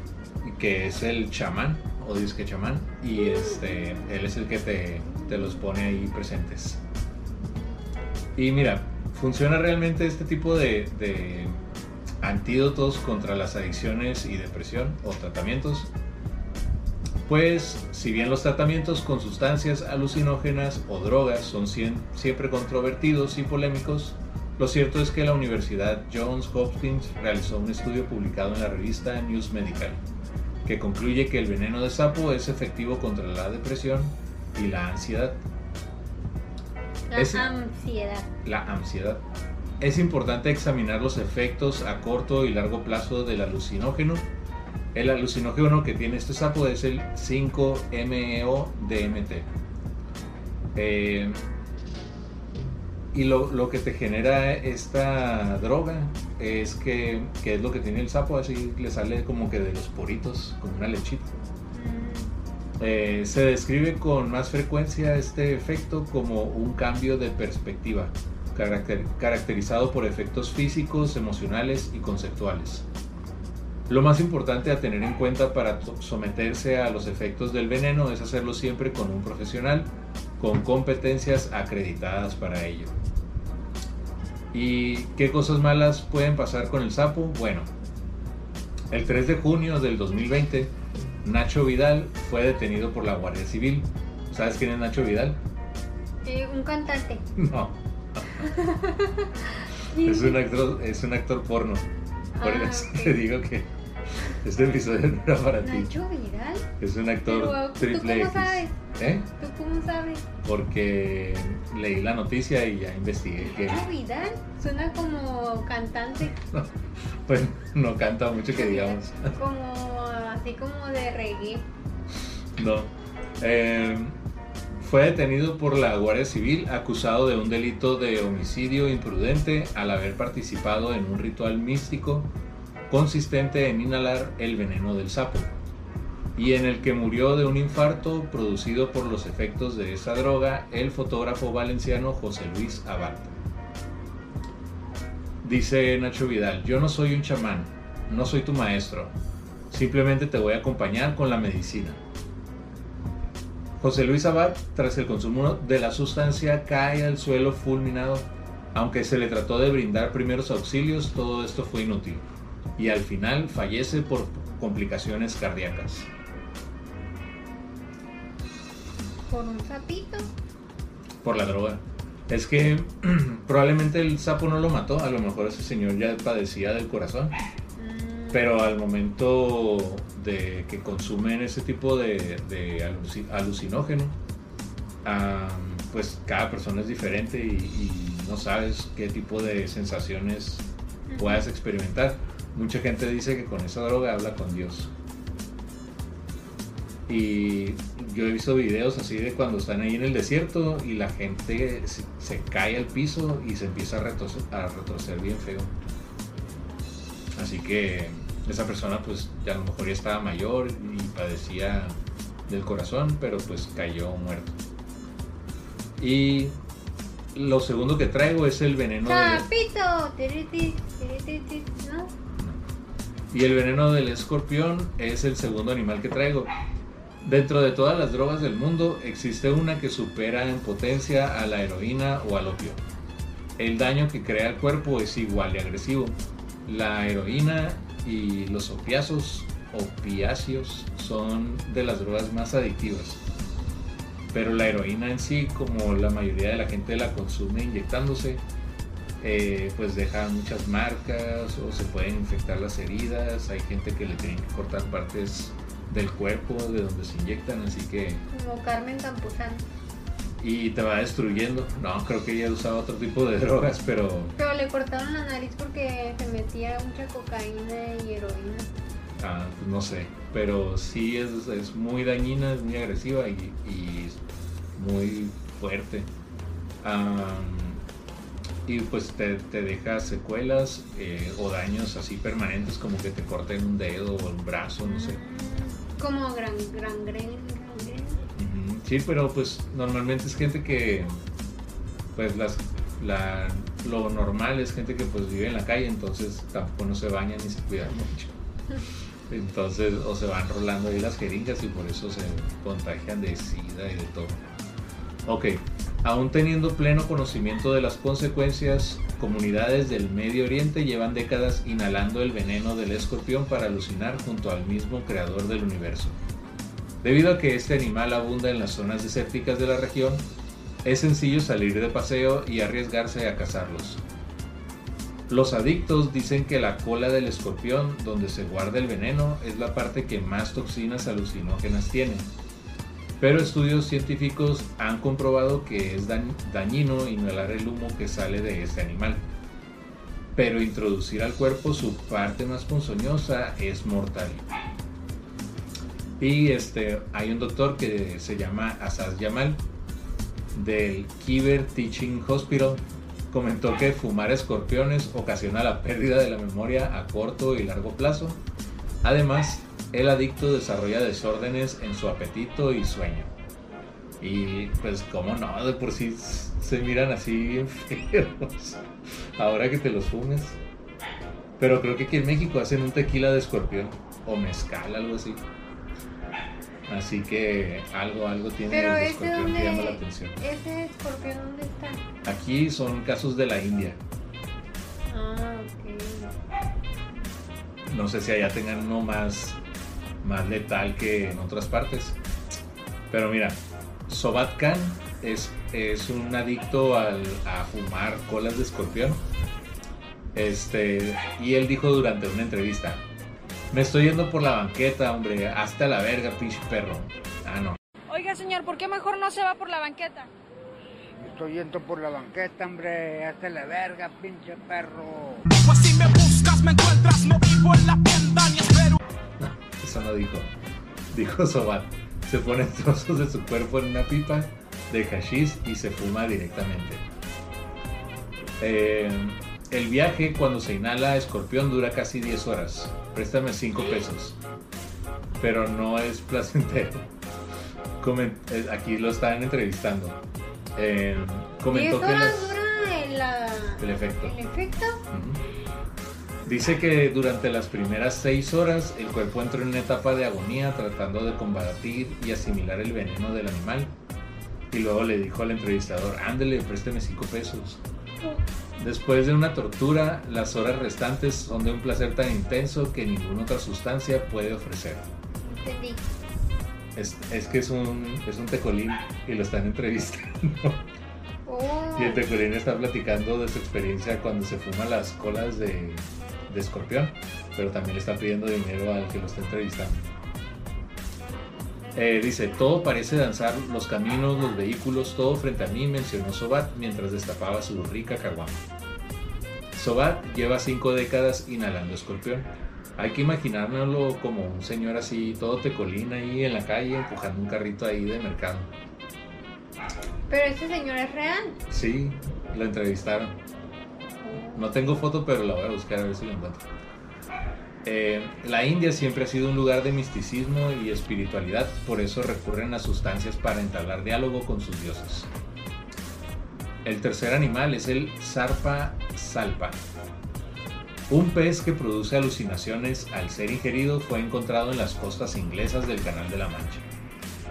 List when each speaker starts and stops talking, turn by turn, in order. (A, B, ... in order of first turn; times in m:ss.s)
0:00.4-0:06.8 A
0:08.4-0:11.6 A
0:12.2-0:15.9 A
0:17.2-0:30.0 A
0:30.6-0:35.4 A
0:37.1-0:38.3 B
0:37.1-0:37.4 A
0:38.4-0:39.2 A
0:39.8-0:44.3 A
0:44.9-0:49.5 A
0:50.7-0:51.4 A
0:53.1-1:01.4 A
1:01.7-1:02.3 B
1:02.8-1:12.8 A
1:13.9-1:22.9 A
1:24.5-1:27.7 A
1:28.9-1:35.4 A
1:36.2-1:37.2 B
1:37.4-1:38.4 A
1:38.4-1:40.4 B
1:40.0-1:41.9 A
1:42.3-1:43.2 B
1:42.4-1:43.7 A
1:44.2-1:45.9 A
1:45.6-1:46.7 B
1:46.8-1:49.3 A
1:47.3-1:48.8 B
1:49.3-1:50.3 B
1:50.4-1:53.8 A
1:53.5-1:56.4 B
1:56.3-1:56.7 A
1:57.2-1:59.3 A
1:58.5-2:01.7 B
2:02.6-2:04.2 A
2:04.7-2:12.3 A
2:12.9-2:15.6 A
2:16.3-2:23.3 A
2:25.4-2:29.1 A
2:29.7-2:32.0 A
2:33.8-2:42.2 A
2:42.8-2:46.1 A
2:49.3-2:50.3 B
2:51.2-2:57.3 A
2:57.8-2:58.6 B
2:58.3-3:04.2 A
3:05.0-3:10.6 A
3:11.1-3:11.5 B
3:11.2-3:14.9 A
3:17.1-3:25.7 A
3:27.4-3:32.0 A
3:32.5-3:34.6 A
3:36.0-3:36.6 A
3:37.3-3:39.5 A
3:39.0-3:42.1 B
3:43.3-3:46.5 A
3:47.2-3:52.8 A
3:53.6-4:03.2 A
4:04.3-4:08.4 A
4:09.2-4:18.2 A
4:18.3-4:19.6 B
4:20.4-4:24.3 A
4:24.4-4:28.7 B
4:29.2-4:34.2 A
4:34.8-4:36.1 A
4:36.8-4:37.8 A
4:38.6-4:45.2 A
4:44.8-4:48.2 B
4:48.4-4:51.1 A
4:52.1-4:58.4 A
4:59.3-5:04.4 A
5:05.2-5:16.2 A
5:17.0-5:20.3 A
5:20.8-5:24.0 A
5:25.3-5:32.3 A
5:33.2-5:39.2 A
5:40.3-5:44.4 A
5:46.2-5:49.6 A
5:50.5-5:58.4 A
5:59.0-6:03.3 A
6:04.2-6:10.6 A
6:11.6-6:15.4 A
6:16.9-6:20.4 A
6:18.7-6:22.0 B
6:22.2-6:24.0 A
6:25.1-6:26.3 B
6:27.9-6:29.6 A
6:30.2-6:32.2 A
6:33.1-6:39.2 A
6:40.3-6:43.0 A
6:43.7-6:47.8 A
6:48.1-6:50.3 C
6:51.2-6:55.6 D
6:55.6-6:59.0 E
6:59.4-7:00.5 A
7:01.1-7:07.0 A
7:08.6-7:14.4 A
7:15.4-7:17.1 A
7:18.0-7:20.2 A
7:20.8-7:22.6 A
7:21.7-7:25.0 B
7:23.8-7:24.3 A
7:25.1-7:25.4 A
7:26.4-7:33.9 A
7:34.7-7:37.8 A
7:38.8-7:45.0 A
7:45.4-7:46.1 B
7:46.9-7:50.8 A
7:51.4-7:52.2 B
7:52.0-7:59.9 A
8:01.9-8:08.6 A
8:09.7-8:18.7 A
8:20.3-8:21.6 B
8:21.7-8:23.4 A
8:24.2-8:24.7 B
8:24.5-8:26.7 A
8:27.8-8:35.3 A
8:36.8-8:39.8 A
8:41.1-8:46.9 A